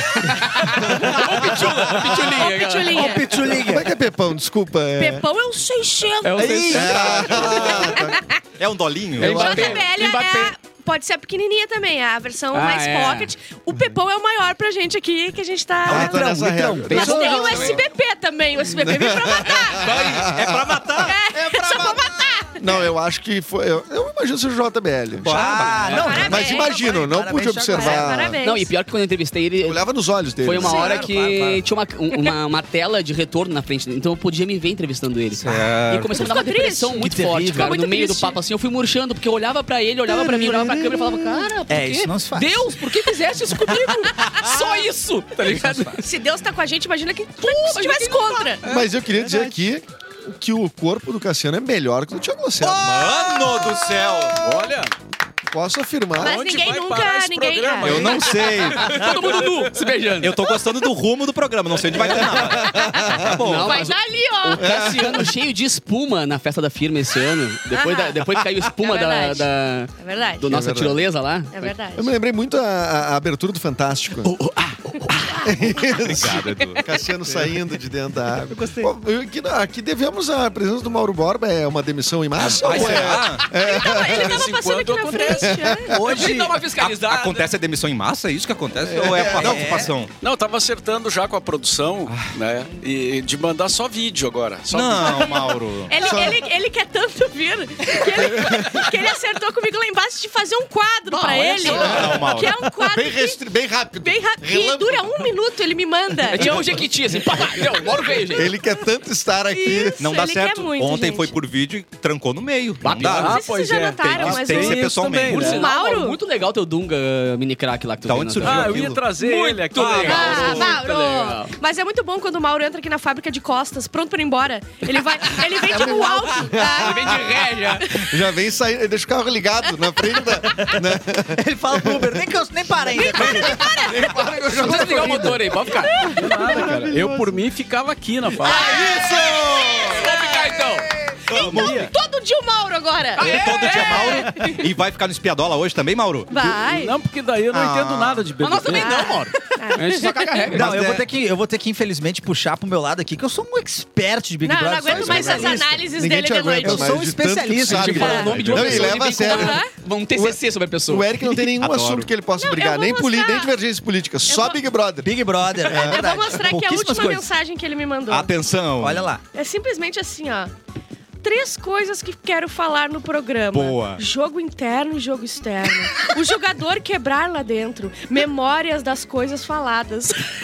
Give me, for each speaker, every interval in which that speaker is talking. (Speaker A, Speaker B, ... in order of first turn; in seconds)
Speaker A: 0.1-3.2, 6.2-7.2, 9.2-10.5, 12.5-13.3, 17.0-17.8, 19.8-20.3, 28.4-29.8, 30.4-46.0, 47.4-48.6, 58.8-60.3, 63.2-71.5, 74.2-75.5, 86.0-87.5, 101.1-102.1, 106.3-108.5, 112.8-113.4, 115.2-118.9, 119.6-121.5, 126.5-128.0, 133.6-136.0, 139.8-140.9, 143.2-144.3, 148.4-150.8, 157.6-161.1
Speaker B: 2.0-3.3, 4.9-6.5, 7.4-8.2, 9.2-16.2, 16.9-19.9, 21.0-22.7, 25.6-27.1, 27.6-28.7, 30.6-31.0, 36.1-38.4, 46.0-48.6, 56.2-58.4, 62.4-64.6, 67.7-70.5, 71.5-72.1, 83.6-85.9, 95.0-103.4, 104.0-106.8, 109.5-111.3, 113.2-116.2, 119.2-128.1, 130.0-130.8, 132.9-134.2, 135.7-136.6, 138.4-144.6, 146.3-147.0, 148.7-150.7, 154.4-156.9, 157.9-159.7, 162.3-163.5, 164.3-164.6, 165.7-168.3, 169.3-170.5, 171.2-180.2
Speaker C: 2.9-3.9, 6.4-7.5, 15.8-17.6, 25.2-28.3, 30.5-31.6, 35.4-35.8, 37.0-37.8, 40.1-42.8, 43.7-44.0, 85.9-86.6, 89.0-89.9, 131.3-135.3, 150.5-155.7, 156.6-158.3, 165.0-167.3, 168.8-169.2
Speaker D: 3.5-5.2, 6.4-8.2, 9.2-9.9, 15.8-17.8, 18.6-21.1, 22.6-25.3, 26.3-28.4, 29.6-31.0, 48.7-53.5, 55.5-56.4, 64.6-65.2, 70.4-71.0, 71.9-74.3, 75.4-84.5, 85.3-86.0, 88.9-89.7, 96.0-96.4, 98.0-98.8, 101.6-102.2, 102.8-105.3, 106.4-110.0, 125.5-132.2, 132.9-137.4, 150.6-151.0, 154.9-159.6, 160.1-166.1
Speaker E: 6.6-9.5, 19.8-21.6, 25.2-26.4, 35.4-36.3, 45.4-46.0, 49.2-49.5, 52.6-54.7, 57.8-59.1, 60.2-63.9, 64.6-65.2, 76.0-77.5, 78.5-78.9, 82.4-83.5, 86.8-90.1, 92.1-92.3, 94.7-96.0, 101.7-102.7, 109.9-113.4, 114.0-115.4, 118.0-119.1, 138.4-140.1, 141.3-141.9, 143.2-146.3, 147.5-148.3, 161.4-162.1, 168.1-169.1, 173.5-174.0
Speaker F: 9.4-9.9, 48.6-48.9, 54.4-54.9, 56.2-60.3, 83.4-85.5, 90.2-95.4, 113.0-115.7, 118.4-120.8, 136.1-138.7, 141.5-141.9, 146.4-149.1, 158.3-158.7